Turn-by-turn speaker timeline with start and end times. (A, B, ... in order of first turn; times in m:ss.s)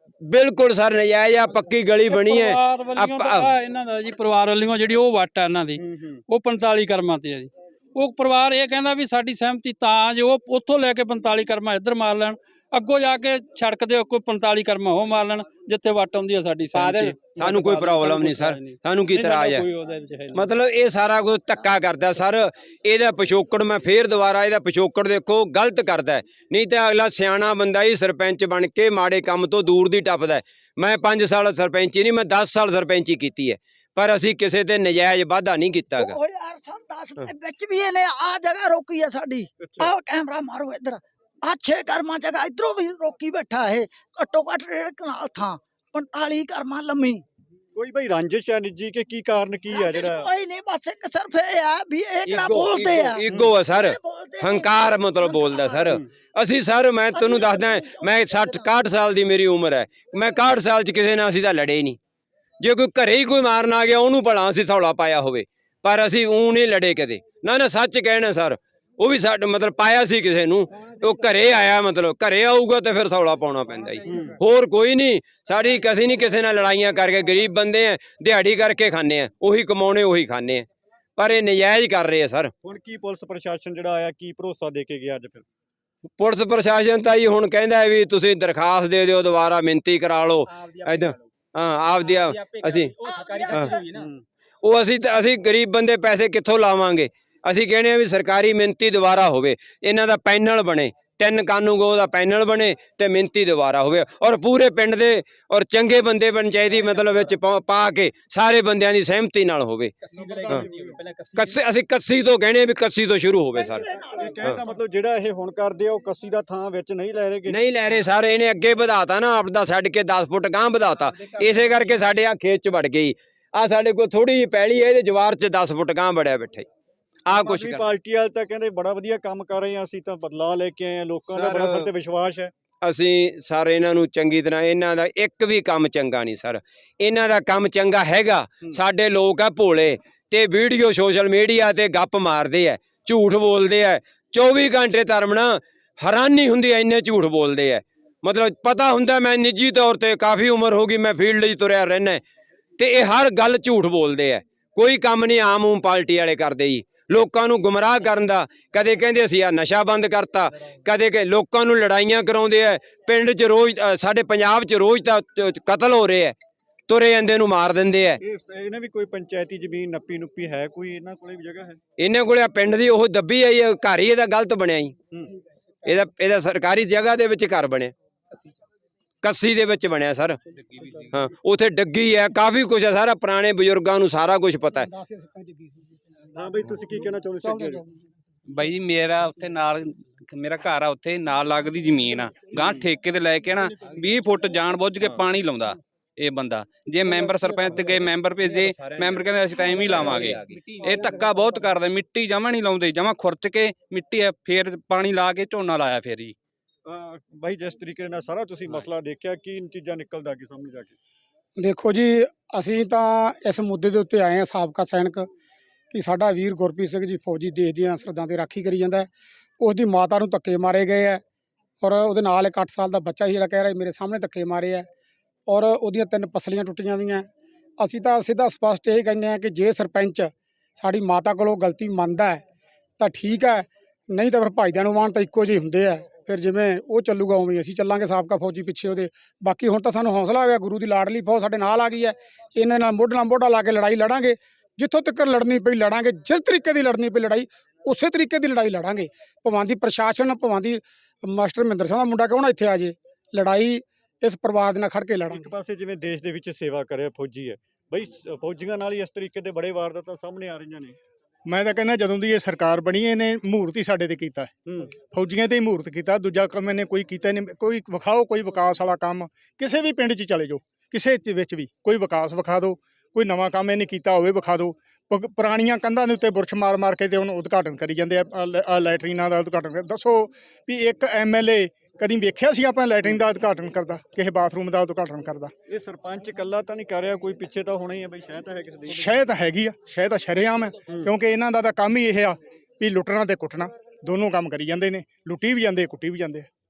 0:00.2-0:03.5 A
0:02.1-0:20.5 B
0:05.8-0:06.2 C
0:16.7-0:17.2 D
0:17.3-0:19.7 A
0:20.3-0:36.2 A
0:36.0-0:47.2 E
0:39.6-0:39.9 C
0:47.8-0:50.3 C
0:49.7-0:55.9 E
0:52.3-1:02.0 A
0:53.3-0:53.5 C
0:57.1-0:58.7 E
1:02.6-1:22.5 A
1:22.6-1:25.4 C
1:26.2-1:33.0 A
1:33.0-1:34.0 E
1:33.5-1:33.8 A
1:34.6-1:49.9 A
1:50.2-1:50.7 F
1:50.5-1:50.9 C
1:51.4-1:54.6 A
1:53.6-1:54.5 E
1:54.1-1:57.6 C
1:57.5-2:06.7 A
2:07.3-2:07.8 A
2:07.3-2:12.5 C
2:11.4-2:11.9 A
2:12.8-2:32.2 A
2:32.8-2:46.4 A
2:46.9-2:48.2 A
2:48.2-2:51.8 C
2:52.0-2:55.0 A
2:55.8-2:57.9 A
2:59.2-3:00.4 A
3:00.6-3:01.2 D
3:01.1-3:04.9 A
3:04.8-3:05.8 G
3:06.4-3:07.8 C
3:07.4-3:07.8 D
3:08.5-3:26.4 D
3:26.9-3:31.0 C
3:31.6-3:35.3 G
3:35.9-3:39.1 G
3:39.6-3:41.2 G
3:41.8-3:44.9 G
3:45.5-3:47.3 G
3:47.8-3:52.4 G
3:53.0-4:15.5 G
4:15.3-4:21.0 C
4:21.5-4:24.5 F
4:24.7-4:25.0 C
4:25.0-4:45.5 F
4:45.7-4:49.1 C
4:48.9-4:56.5 F